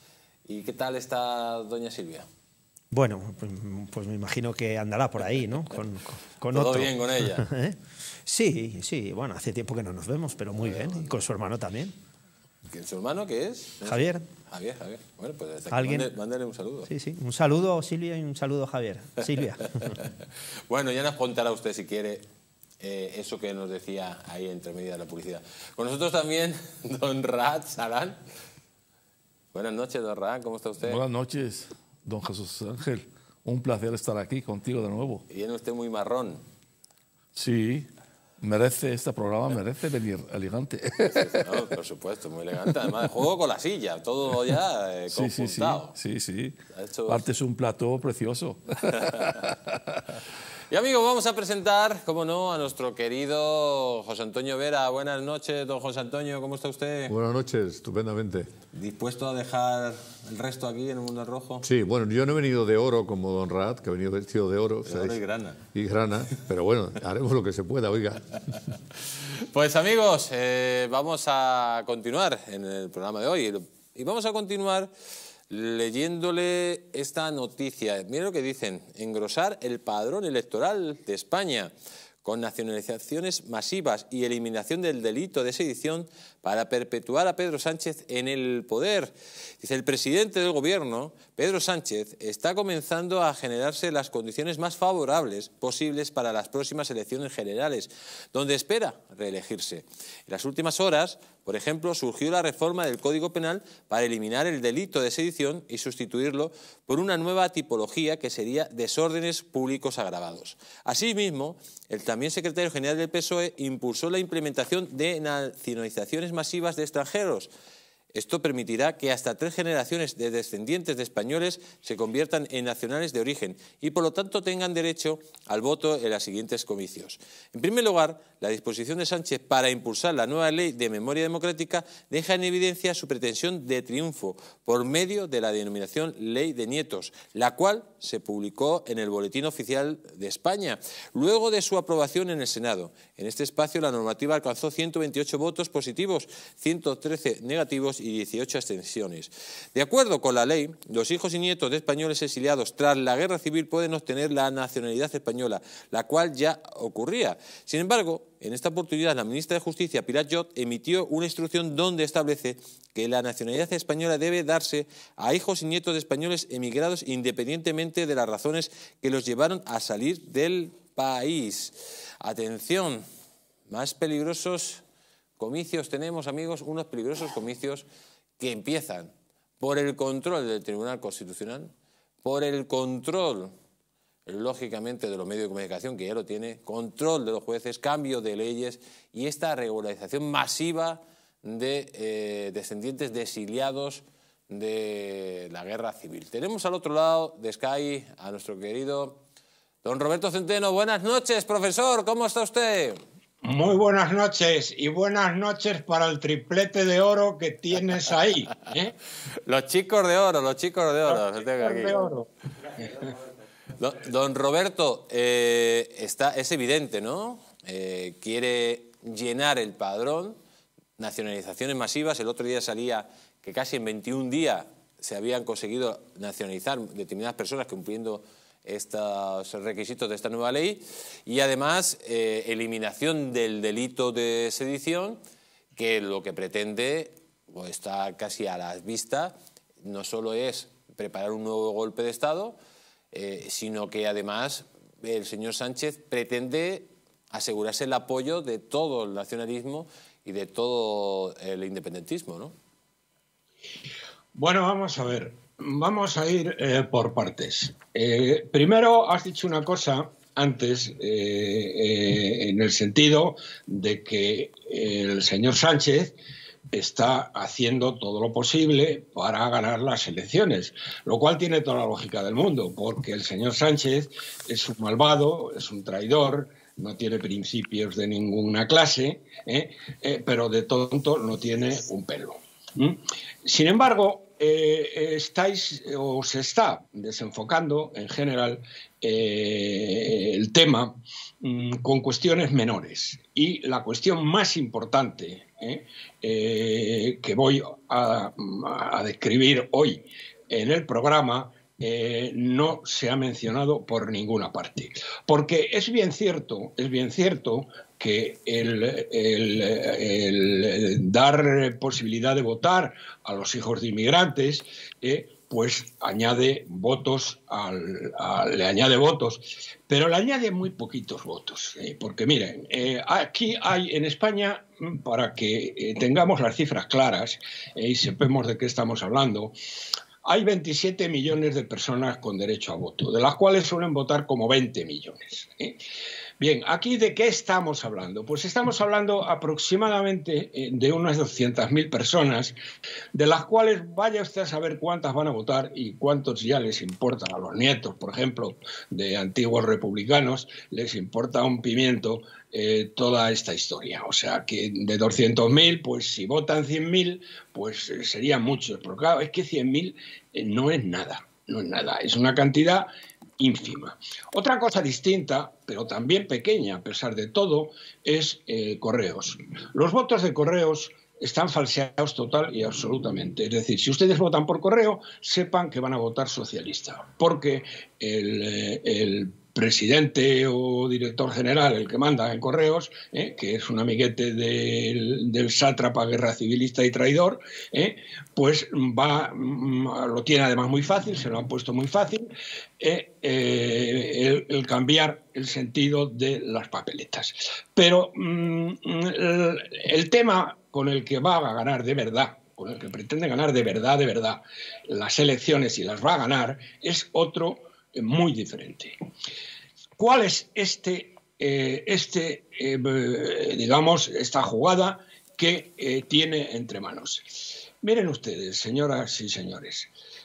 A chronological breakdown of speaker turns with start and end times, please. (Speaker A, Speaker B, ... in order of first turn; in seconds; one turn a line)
Speaker A: 0.5-2.2
Speaker B: 2.9-11.9
Speaker A: 6.5-7.5
Speaker A: 12.7-16.9
Speaker B: 13.8-14.2
Speaker B: 15.7-16.1
Speaker B: 16.9-19.9
Speaker A: 19.8-20.1
Speaker A: 20.7-22.2
Speaker A: 22.8-28.2
Speaker A: 29.5-31.0
Speaker C: 30.8-35.2
Speaker A: 35.3-36.4
Speaker C: 37.4-37.9
Speaker C: 38.4-41.6
Speaker A: 41.1-45.9
Speaker C: 45.1-46.5
Speaker A: 46.7-47.2
Speaker C: 47.1-49.9
Speaker A: 50.7-57.1
Speaker D: 57.1-58.5
Speaker A: 58.7-61.6
Speaker D: 61.6-65.2
Speaker A: 64.8-65.6
Speaker D: 65.7-68.4
Speaker A: 69.5-74.9
Speaker A: 75.5-81.7
Speaker A: 82.2-117.5
Speaker A: 118.1-173.0
Speaker A: 173.7-174.8
Speaker A: 175.4-177.8
Speaker A: 178.4-181.7
Speaker A: 182.2-183.5
Speaker A: 184.2-199.2
Speaker A: 199.8-203.0
Speaker E: 203.4-208.9
Speaker A: 209.4-212.0
Speaker E: 211.1-212.3
Speaker A: 213.8-220.4
Speaker A: 221.0-235.2
Speaker A: 235.7-242.6
Speaker A: 243.1-252.5
Speaker E: 254.3-266.1
Speaker E: 266.7-329.5
Speaker E: 330.2-335.8
Speaker E: 336.4-342.6
Speaker E: 343.1-362.9
Speaker E: 363.4-408.9
Speaker E: 410.0-419.9